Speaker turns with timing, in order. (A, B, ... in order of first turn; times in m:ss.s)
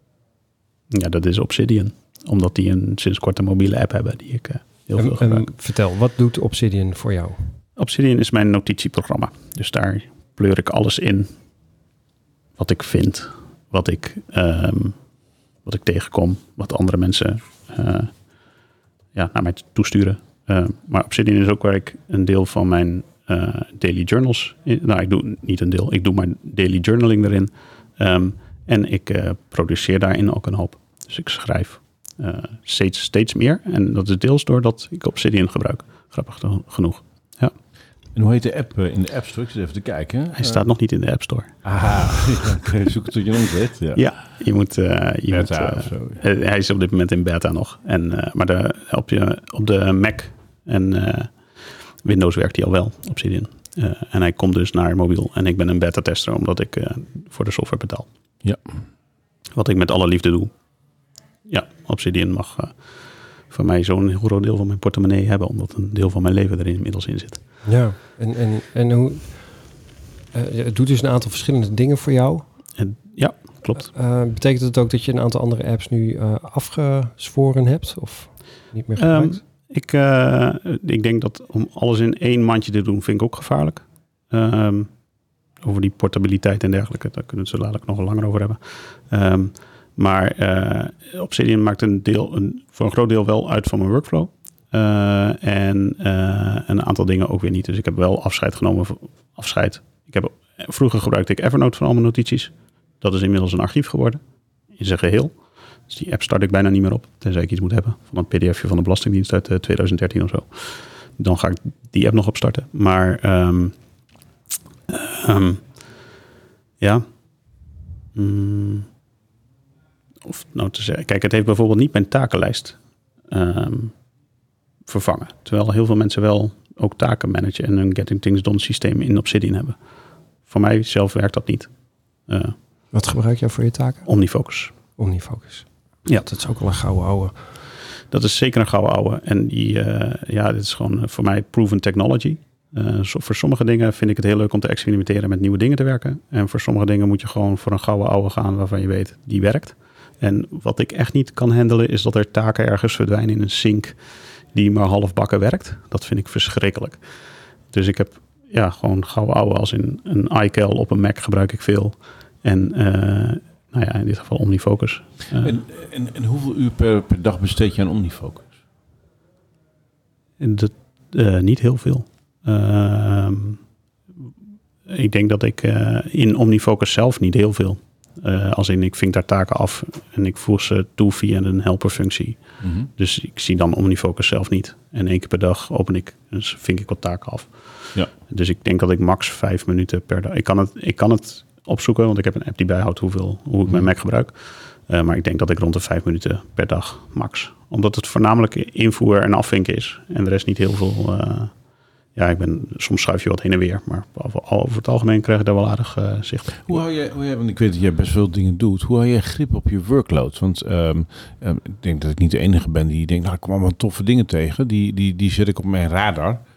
0:00.9-0:05.5 A
0:05.0-0:07.4 B
0:07.8-0:11.3 A
0:12.6-0:15.0 A
0:15.6-0:18.2 A
0:19.1-0:37.5 A
0:38.1-0:40.6 C
0:40.4-0:42.3 A
0:41.6-0:44.0 C
0:43.9-0:58.1 A
0:45.3-0:46.2 C
0:58.4-0:58.8 C
0:59.5-1:00.5 A
1:01.4-1:07.4 A
1:07.6-1:12.4 B
1:12.8-1:13.9 A
1:13.9-1:19.4 B
1:19.0-1:24.9 A
1:25.6-1:44.2 A
1:44.7-1:45.4 A
1:45.9-1:53.7 A
1:54.9-1:55.6 A
1:56.8-1:57.0 A
1:58.1-1:58.9 A
2:00.2-2:03.9 A
2:04.8-2:09.8 A
2:10.4-2:11.7 A
2:12.2-2:12.6 A
2:12.9-2:14.0 B
2:14.0-2:14.7 A
2:15.0-2:17.4 B
2:18.1-2:34.0 A
2:34.5-2:37.0 A
2:37.7-2:45.6 A
2:45.4-2:48.5 C
2:50.4-2:53.6 A
2:54.8-3:21.6 A
3:02.6-3:02.9 C
3:22.1-3:26.8 A
3:26.6-3:36.4 C